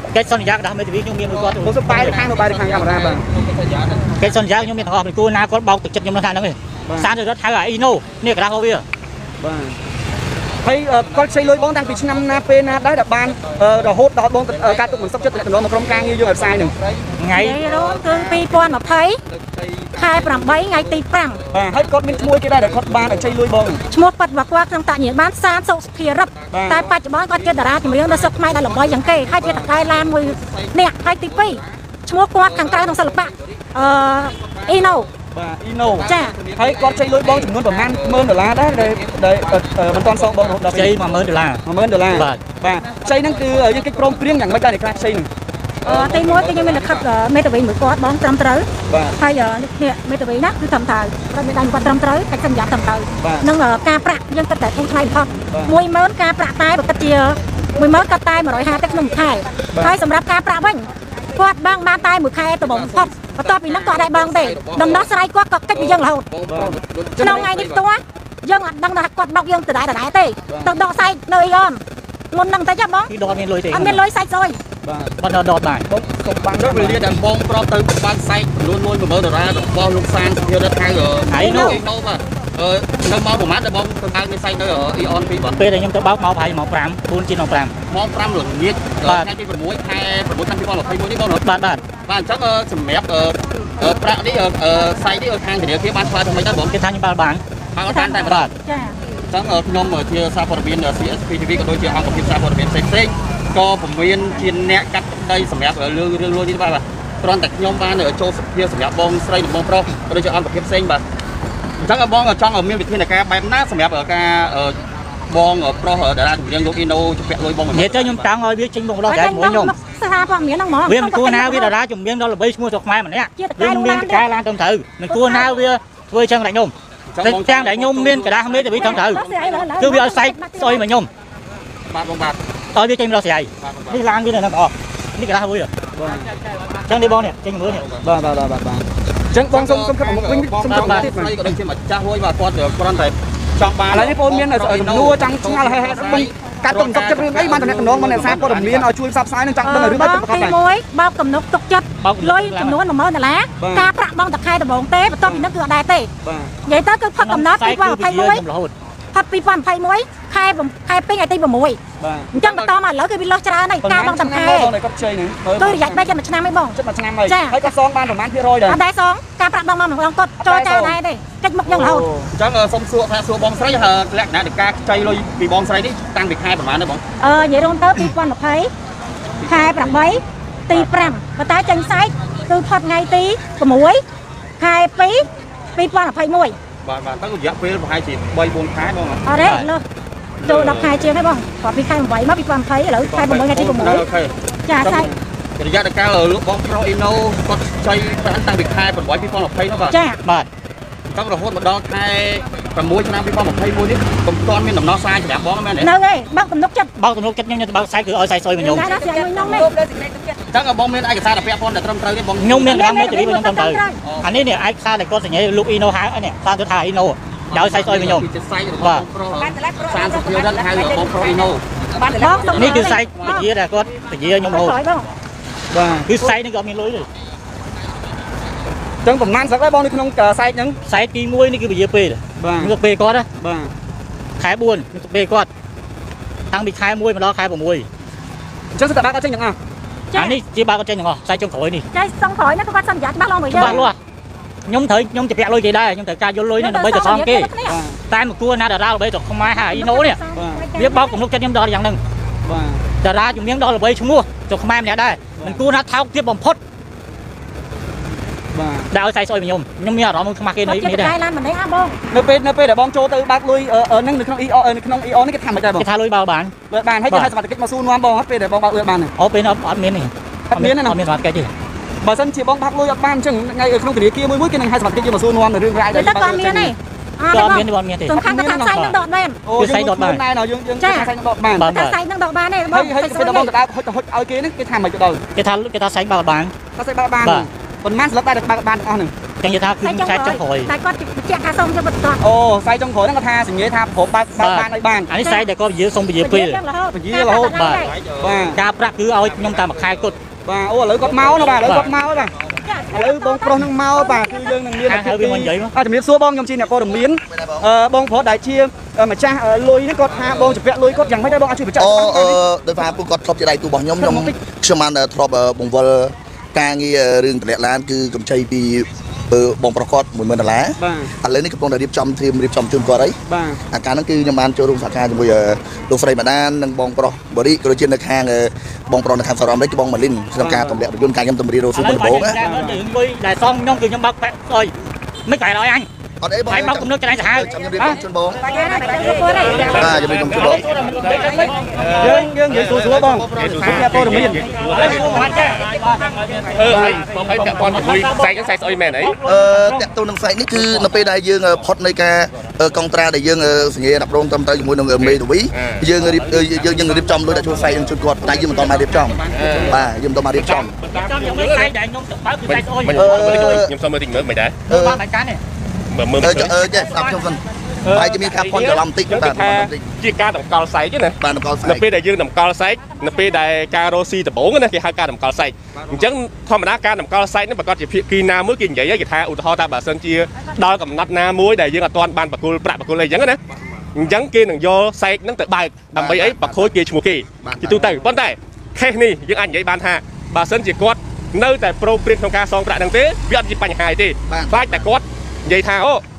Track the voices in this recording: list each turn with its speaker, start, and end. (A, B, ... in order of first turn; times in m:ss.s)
0:00.1-0:02.2 A
0:01.2-0:04.3 B
0:01.6-0:03.2 C
0:04.2-0:08.8 A
0:09.4-0:09.8 C
0:10.6-0:16.7 C
0:10.9-0:12.8 B
0:13.4-0:23.8 B
0:17.2-0:17.6 A
0:17.3-0:19.2 D
0:20.0-0:21.4 D
0:21.5-0:23.8 C
0:23.9-0:35.1 D
0:26.4-0:31.7 B
0:26.5-0:26.9 C
0:32.4-0:35.1 B
0:35.3-0:40.9 C
0:35.8-0:41.3 B
0:36.0-0:36.4 D
0:40.7-0:41.6 A
0:41.6-0:45.3 C
0:42.2-0:42.4 A
0:42.2-0:44.6 B
0:45.8-0:47.1 B
0:45.8-1:06.3 D
0:48.9-0:49.2 C
0:53.2-0:53.5 C
1:02.6-1:05.2 B
1:05.7-1:07.8 B
1:06.5-1:06.8 C
1:07.2-1:13.1 D
1:13.1-1:14.0 A
1:13.7-1:14.6 D
1:14.8-1:15.1 C
1:15.2-1:15.9 A
1:15.9-1:17.0 C
1:16.6-1:25.6 B
1:21.3-1:21.8 A
1:21.4-1:21.8 D
1:25.6-1:27.8 A
1:27.9-1:36.8 B
1:29.0-1:29.3 A
1:31.3-1:31.8 A
1:36.4-1:37.4 A
1:37.7-1:38.5 B
1:37.9-1:39.0 D
1:38.2-1:38.5 A
1:39.3-1:51.0 B
1:51.8-1:54.8 B
1:55.3-1:58.2 B
1:57.7-1:59.7 A
1:59.1-2:01.7 D
2:00.9-2:11.1 A
2:03.4-2:04.2 D
2:05.1-2:05.5 D
2:07.1-2:09.7 B
2:08.7-2:10.9 D
2:11.9-2:12.4 B
2:12.8-2:15.7 A
2:13.6-2:14.0 B
2:16.0-2:16.3 C
2:16.9-2:17.8 A
2:17.7-2:18.1 B
2:18.0-2:21.3 C
2:19.5-2:28.9 B
2:20.7-2:21.1 A
2:23.9-2:30.6 C
2:29.6-2:36.1 D
2:32.0-2:32.8 A
2:33.6-2:33.9 C
2:36.2-2:36.5 C
2:36.7-2:38.4 D
2:37.2-2:38.7 A
2:39.1-2:41.8 D
2:42.0-2:42.4 C
2:42.4-2:44.7 D
2:42.4-2:42.7 B
2:43.8-2:46.1 C
2:45.6-2:46.8 D
2:46.7-2:48.8 C
2:47.3-2:47.7 D
2:48.7-2:52.1 D
2:50.4-2:51.0 C
2:51.7-2:52.3 C
2:52.3-2:57.0 B
2:57.2-2:58.7 D
2:59.4-3:04.0 D
2:59.5-2:59.9 B
3:04.6-3:06.6 D
3:06.8-3:09.2 B
3:09.2-3:09.8 D
3:09.4-3:09.7 A
3:10.4-3:14.1 D
3:10.4-3:10.9 B
3:13.0-3:20.0 B
3:14.7-3:15.1 D
3:19.9-3:20.2 D
3:21.1-3:25.9 B
3:25.8-3:26.9 D
3:27.0-3:28.9 A
3:28.6-3:29.7 D
3:30.5-3:32.7 B
3:32.4-3:39.1 A
3:32.6-3:34.0 D
3:34.0-3:34.4 B
3:37.5-3:43.1 B
3:42.0-3:43.5 D
3:42.5-3:44.8 A
3:44.4-3:45.1 D
3:45.7-3:46.1 C
3:46.1-3:47.1 A
3:49.0-3:50.8 C
3:50.9-3:53.3 A
3:52.4-3:52.7 C
3:53.4-3:53.7 C
3:54.4-3:55.5 A
3:56.5-3:57.9 A
3:58.8-3:59.6 C
4:00.1-4:00.4 D
4:00.2-4:01.8 A
4:01.9-4:03.8 D
4:03.5-4:04.0 A
4:03.6-4:03.9 C
4:04.7-4:07.5 A
4:06.6-4:07.8 D
4:07.7-4:08.0 C
4:08.1-4:10.2 A
4:09.5-4:11.2 D
4:10.3-4:10.7 C
4:10.8-4:12.0 A
4:12.5-4:12.8 C
4:13.0-4:16.6 A
4:18.5-4:18.9 C
4:18.9-4:21.1 A
4:20.6-4:22.0 D
4:22.1-4:25.9 C
4:25.8-4:26.5 A
4:26.7-4:29.1 C
4:29.2-4:31.5 A
4:30.5-4:31.0 C
4:32.0-4:36.7 C
4:35.9-4:39.5 D
4:37.3-4:39.0 A
4:38.2-4:38.7 C
4:39.4-4:41.7 C
4:39.5-4:40.2 A
4:40.8-4:41.1 D
4:41.6-4:42.0 A
4:41.7-4:43.5 D
4:42.7-4:45.2 C
4:45.4-4:46.5 A
4:46.8-4:49.1 C
4:49.4-4:50.7 A
4:49.8-4:52.2 D
4:52.2-4:55.1 C
4:54.4-4:56.6 A
4:55.2-4:55.5 D
4:56.2-4:57.9 D
4:56.9-4:57.6 C
4:57.5-4:57.9 A
4:57.7-4:58.6 B
4:58.2-4:58.6 C
4:58.6-5:00.2 A
4:59.1-5:00.1 B
5:00.4-5:02.3 C
5:01.0-5:02.5 B
5:01.6-5:01.9 A
5:02.6-5:04.6 D
5:02.9-5:12.4 C
5:04.8-5:05.7 A
5:07.3-5:07.7 E
5:10.2-5:10.6 B
5:11.8-5:23.2 E
5:14.0-5:14.4 C
5:20.8-5:21.1 C
5:23.3-5:23.6 C
5:23.7-5:32.4 E
5:30.4-5:30.8 C
5:31.8-5:34.7 A
5:32.4-5:32.8 C
5:35.3-5:35.9 A
5:36.2-5:38.4 E
5:36.5-5:38.0 A
5:38.5-5:39.8 D
5:39.4-5:45.6 F
5:39.7-5:42.3 A
5:39.8-5:40.7 E
5:42.0-5:44.4 C
5:43.2-5:44.1 E
5:44.6-5:46.4 A
5:46.6-5:49.2 F
5:46.7-5:47.0 C
5:47.6-5:48.3 A
5:49.0-5:49.9 A
5:49.2-6:00.8 E
5:55.0-5:57.2 F
5:58.1-5:59.8 B
5:59.3-5:59.8 F
6:00.4-6:01.7 F
6:00.9-6:03.6 A
6:02.5-6:04.6 F
6:02.9-6:03.7 E
6:04.7-6:05.4 A
6:04.7-6:05.0 E
6:05.9-6:06.6 F
6:06.2-6:09.9 E
6:06.7-6:07.1 A
6:07.8-6:23.4 F
6:11.2-6:11.8 E
6:24.0-6:36.0 F
6:26.0-6:26.7 E
6:27.4-6:28.0 E
6:34.3-6:34.8 E